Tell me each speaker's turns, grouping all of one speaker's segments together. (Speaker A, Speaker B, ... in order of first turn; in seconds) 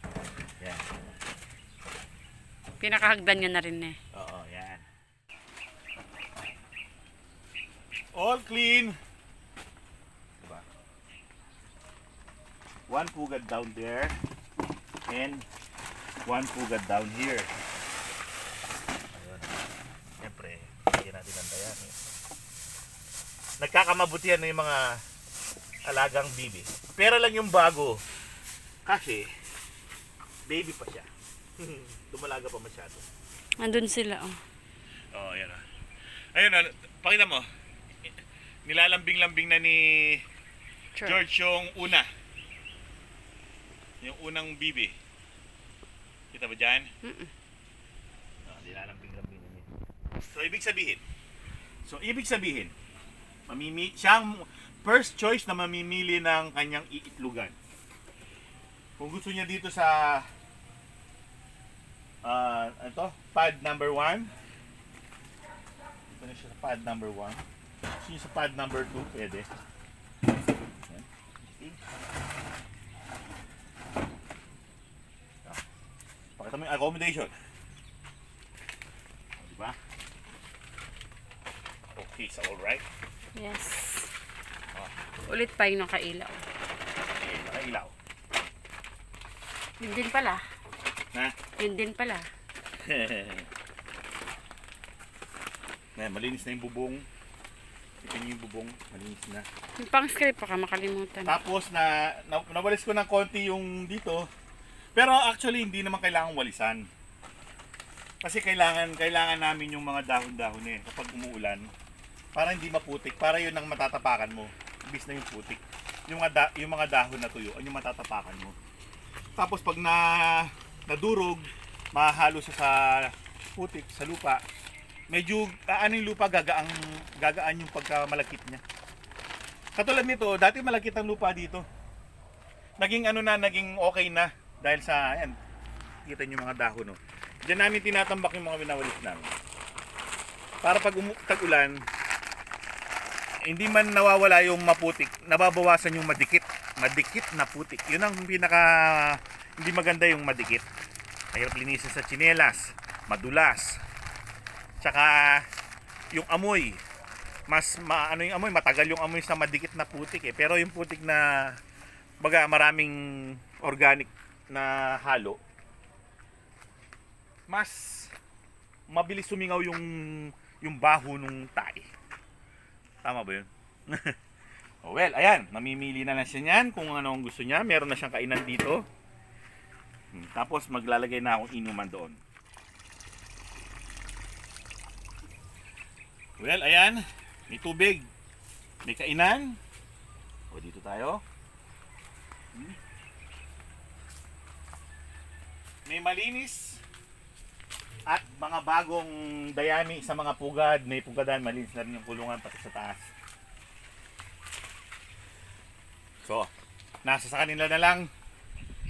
Speaker A: 2.8-4.0, 33.6-34.4, 41.0-41.2, 47.0-47.3, 83.3-84.1, 85.3-86.4, 89.8-90.4, 91.6-92.3, 99.8-101.4
Speaker B: 4.1-4.8, 8.1-8.9, 12.9-14.2, 15.1-15.4, 16.2-17.5, 19.1-19.5, 20.2-21.9, 23.6-24.8, 25.9-28.0, 28.9-29.2, 30.5-31.1, 31.6-33.0, 35.1-35.6, 36.3-37.5, 38.6-40.2, 41.0-42.1, 44.0-44.9, 46.3-46.9, 48.5-49.7, 50.3-51.0, 51.8-52.7, 53.5-57.5, 59.0-60.2, 62.2-64.3, 66.1-67.4, 68.0-69.5, 70.8-71.8, 76.4-77.3, 79.4-79.8, 82.0-82.8, 87.2-87.9, 92.8-93.5, 96.0-97.0, 98.0-99.5, 101.2-104.2, 104.9-106.9, 108.2-111.7, 112.3-118.6, 119.4-124.4, 125.1-128.6, 129.8-131.6, 132.8-135.3, 136.1-139.3, 140.6-141.8, 143.4-150.6, 151.3-153.8, 154.8-155.4, 156.1-156.8, 157.5-161.6, 162.2-165.4, 167.5-168.1, 168.9-171.9, 173.0-174.1, 174.8-178.8, 180.1-182.2, 186.4-188.1, 188.8-189.6, 190.5-191.2, 195.9-196.8, 198.1-203.1, 206.2-206.5, 207.0-208.1